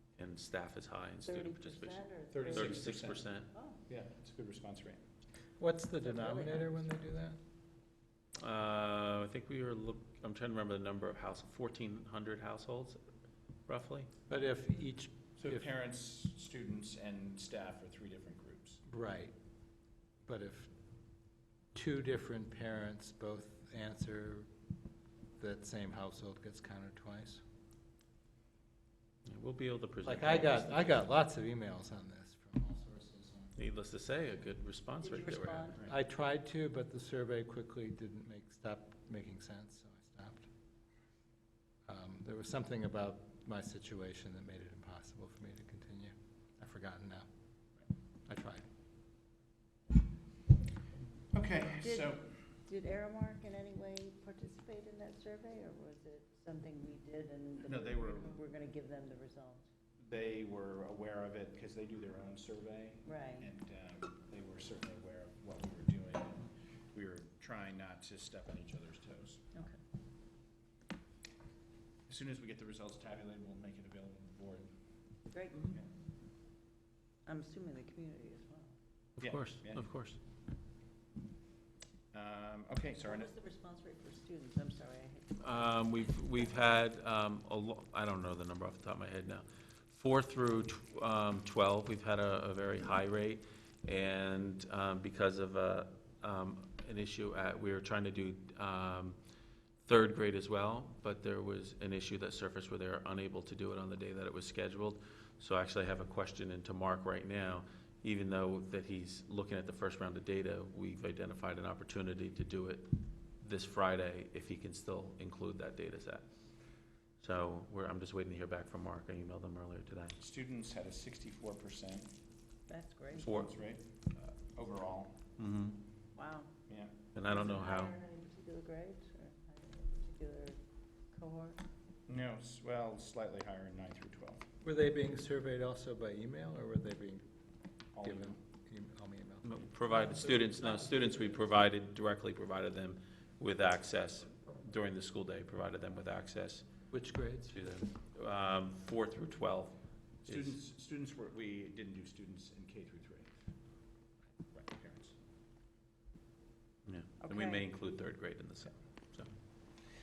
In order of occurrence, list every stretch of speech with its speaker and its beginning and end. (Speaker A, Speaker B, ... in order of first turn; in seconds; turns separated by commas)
Speaker A: 0.2-3.5, Speaker B: 1.2-3.8, Speaker C: 2.3-3.3, Speaker C: 3.9-5.0, Speaker D: 5.6-7.4, Speaker B: 6.0-6.9, Speaker A: 8.4-13.0, Speaker A: 13.7-14.1, Speaker D: 14.3-15.7, Speaker C: 15.4-18.8, Speaker D: 18.9-19.3, Speaker D: 20.2-20.7, Speaker D: 21.7-24.5, Speaker D: 25.4-27.4, Speaker A: 29.2-31.0, Speaker D: 30.0-33.5, Speaker A: 33.6-35.7, Speaker B: 35.0-35.7, Speaker D: 35.8-40.5, Speaker D: 41.9-47.3, Speaker D: 48.3-48.6, Speaker C: 51.3-52.3, Speaker B: 52.6-59.6, Speaker C: 57.6-58.4, Speaker C: 60.0-69.4, Speaker B: 63.1-63.5, Speaker C: 72.1-74.7, Speaker B: 75.3-75.6, Speaker B: 77.2-78.8, Speaker A: 79.2-80.2, Speaker C: 79.2-79.9, Speaker C: 82.1-83.3, Speaker B: 83.0-85.8, Speaker A: 85.4-99.2, Speaker A: 99.8-112.9, Speaker A: 113.4-116.2, Speaker A: 117.2-120.2, Speaker C: 120.2-122.1, Speaker B: 122.7-123.3, Speaker C: 123.1-125.2, Speaker A: 123.2-123.5, Speaker A: 125.4-125.8, Speaker B: 126.1-126.5, Speaker C: 126.7-127.5, Speaker A: 127.1-128.0, Speaker B: 127.6-130.6, Speaker B: 131.1-131.6, Speaker C: 132.1-134.4, Speaker D: 134.6-137.2, Speaker C: 137.9-138.4, Speaker D: 138.0-140.9, Speaker A: 139.4-146.7, Speaker D: 146.9-147.6, Speaker A: 147.5-150.6, Speaker C: 150.2-153.3, Speaker C: 154.5-155.1, Speaker A: 156.8-159.3, Speaker B: 157.3-157.6